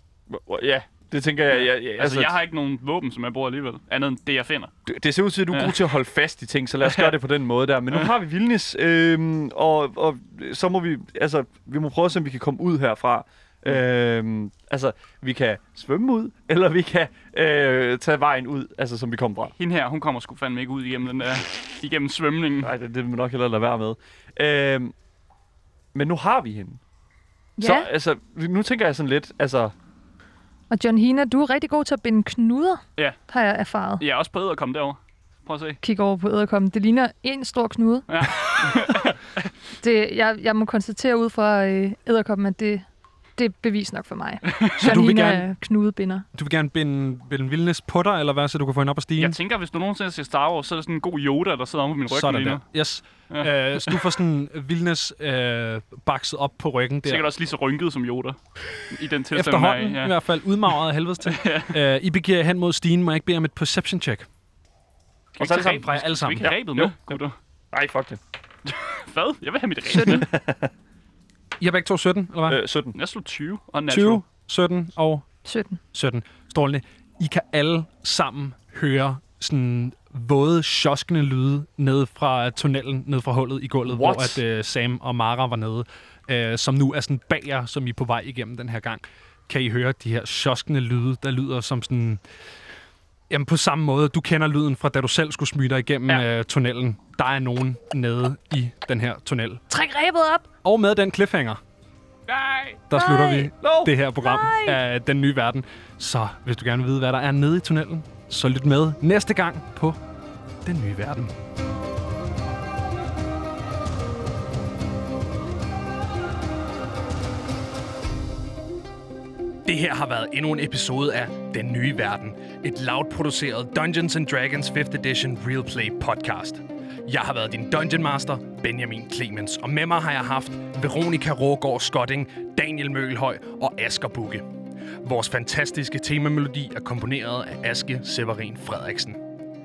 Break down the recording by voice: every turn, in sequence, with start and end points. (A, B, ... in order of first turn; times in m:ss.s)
0:00.3-0:02.3 A
0:01.5-0:04.7 B
0:04.9-0:19.5 A
0:05.5-0:05.8 B
0:06.8-0:07.1 B
0:19.6-0:22.7 B
0:22.6-0:24.9 A
0:25.9-0:26.8 A
0:27.6-0:27.9 C
0:27.6-0:29.7 A
0:30.7-0:34.0 C
0:34.0-0:35.8 B
0:35.8-0:38.1 C
0:38.1-0:39.2 B
0:39.8-0:42.9 C
0:43.4-0:46.2 C
0:44.5-0:44.8 B
0:44.8-0:45.5 D
0:46.3-0:49.4 D
0:49.2-0:52.6 B
0:52.1-0:57.3 D
0:53.3-0:54.0 B
0:57.0-0:58.4 B
0:58.9-1:00.2 B
0:59.3-1:04.3 D
1:01.2-1:01.8 B
1:05.4-1:07.4 B
1:05.4-1:05.9 A
1:05.6-1:06.5 D
1:06.4-1:07.2 A
1:07.7-1:08.2 A
1:08.7-1:10.3 B
1:09.9-1:10.2 C
1:10.0-1:10.7 A
1:11.6-1:12.6 D
1:12.5-1:13.0 A
1:12.9-1:14.2 B
1:13.9-1:15.3 D
1:15.4-1:15.8 C
1:15.9-1:32.2 D
1:23.8-1:24.4 A
1:33.3-1:39.6 D
1:39.7-1:40.5 C
1:40.6-1:41.6 D
1:42.3-1:42.8 B
1:42.9-1:50.0 D
1:42.9-1:43.5 C
1:43.6-1:43.9 A
1:44.2-1:44.8 C
1:50.6-1:51.4 D
1:59.6-2:14.5 D
2:15.0-2:19.2 D